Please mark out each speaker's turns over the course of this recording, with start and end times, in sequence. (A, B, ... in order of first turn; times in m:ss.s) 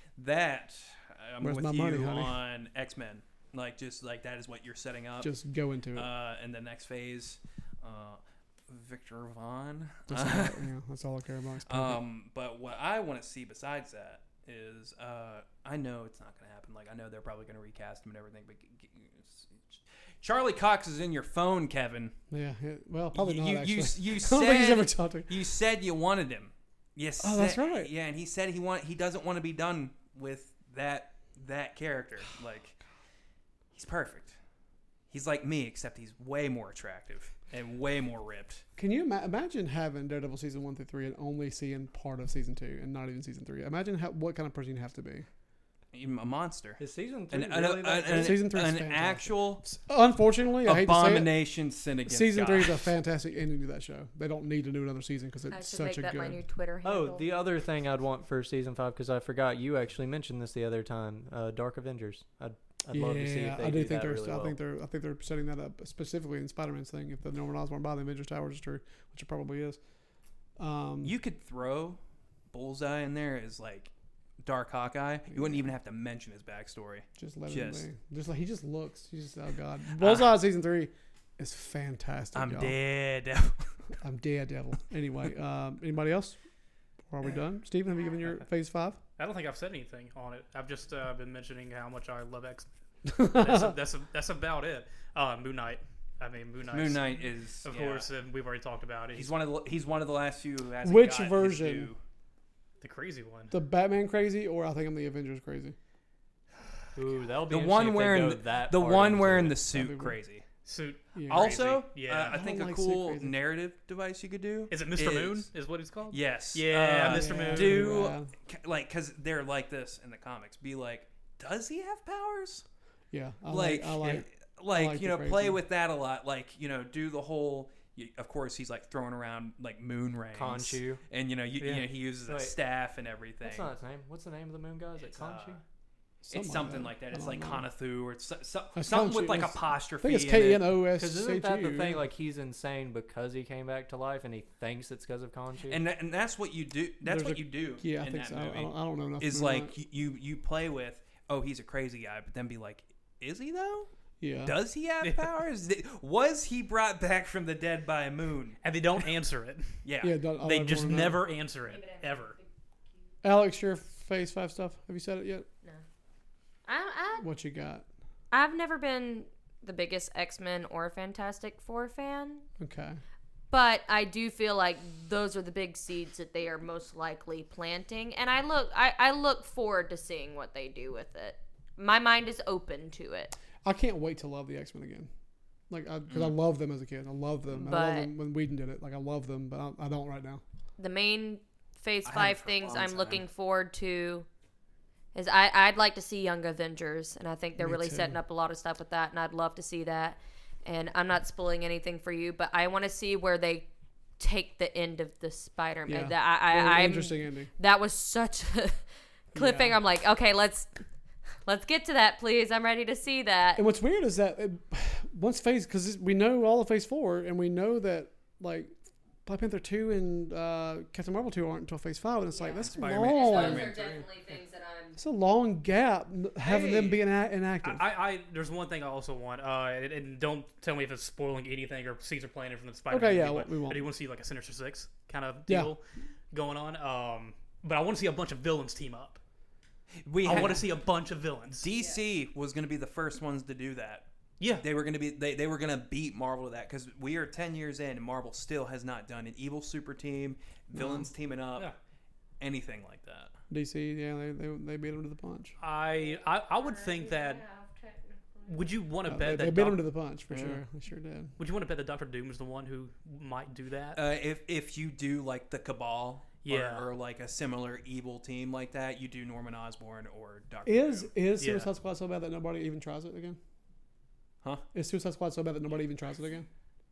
0:00.2-0:05.3 A
0:01.4-0:02.4 B
0:05.2-0:06.1 B
0:05.9-0:10.6 A
0:10.1-0:12.0 B
0:11.7-0:22.2 A
0:22.3-0:25.4 B
0:23.1-0:32.8 A
0:27.2-0:27.9 B
0:33.7-0:34.4 A
0:35.1-0:38.6 A
0:38.8-0:45.3 B
0:45.9-0:49.7 A
0:46.8-0:48.5 C
0:48.1-0:51.4 B
0:50.6-0:52.9 A
0:52.1-0:56.4 B
0:55.5-0:57.3 D
0:56.8-1:04.6 C
1:02.9-1:09.8 B
1:10.6-1:11.2 B
1:11.0-1:12.0 A
1:12.5-1:13.9 A
1:14.4-1:17.9 A
1:15.4-1:15.6 B
1:17.2-1:22.8 B
1:20.0-1:20.4 A
1:22.4-1:23.7 A
1:24.0-1:26.4 B
1:27.1-1:29.0 B
1:29.2-1:32.7 E
1:33.1-1:33.7 B
1:33.3-1:39.3 E
1:36.7-1:38.1 A
1:39.2-1:42.0 A
1:40.8-1:41.9 B
1:42.8-1:43.5 E
1:43.5-1:45.8 B
1:47.0-1:49.6 C
1:47.5-1:50.5 A
1:49.7-1:50.2 B
1:50.6-1:52.4 E
1:51.2-1:51.5 B
1:51.3-1:55.5 A
1:52.3-1:53.3 B
1:54.7-1:58.1 E
1:56.1-2:02.6 A
1:57.1-1:58.3 B
2:03.1-2:05.6 B
2:03.5-2:13.7 A
2:10.3-2:11.0 C
2:12.2-2:12.6 C
2:13.4-2:15.6 C
2:15.1-2:15.6 A
2:16.2-2:17.7 B
2:16.3-2:20.7 A
2:18.8-2:22.0 B
2:21.0-2:25.8 C
2:25.7-2:33.9 A
2:27.1-2:29.7 B
2:34.2-2:34.6 B
2:34.4-2:38.6 A
2:38.6-2:39.8 E
2:39.8-2:40.2 A
2:40.0-2:41.2 B
2:40.4-2:42.4 E
2:41.6-2:42.5 D
2:43.2-2:45.5 B
2:46.6-2:47.3 D
2:47.2-2:47.8 B
2:48.3-2:52.5 D
2:52.6-2:53.0 B
2:53.5-3:03.4 D
3:03.6-3:05.1 B
3:05.7-3:10.4 B
3:07.6-3:08.1 D
3:10.8-3:14.3 D
3:12.0-3:13.2 A
3:15.1-3:23.7 D
3:17.6-3:18.2 B
3:24.2-3:30.7 D
3:25.9-3:27.5 B
3:29.4-3:29.8 B
3:31.4-3:33.6 D
3:33.6-3:38.7 B
3:39.2-3:43.7 B
3:42.3-3:45.0 D
3:42.6-3:44.0 A
3:42.8-3:43.8 E
3:45.0-3:47.8 B
3:46.4-3:47.0 A
3:47.6-3:59.2 E
3:52.9-3:53.9 B
3:55.5-3:55.7 B
4:00.0-4:00.7 A
4:00.2-4:01.7 E
4:01.6-4:11.7 A
4:01.8-4:02.0 D
4:04.4-4:04.6 E
4:10.7-4:11.1 B
4:12.4-4:13.3 A
4:13.5-4:15.6 B
4:15.6-4:17.4 E
4:16.0-4:18.7 D
4:18.5-4:19.8 E
4:19.1-4:21.4 B
4:21.4-4:24.0 E
4:24.0-4:31.2 A
4:26.4-4:26.9 E
4:30.7-4:33.4 B
4:31.4-4:31.7 E
4:34.7-4:36.5 B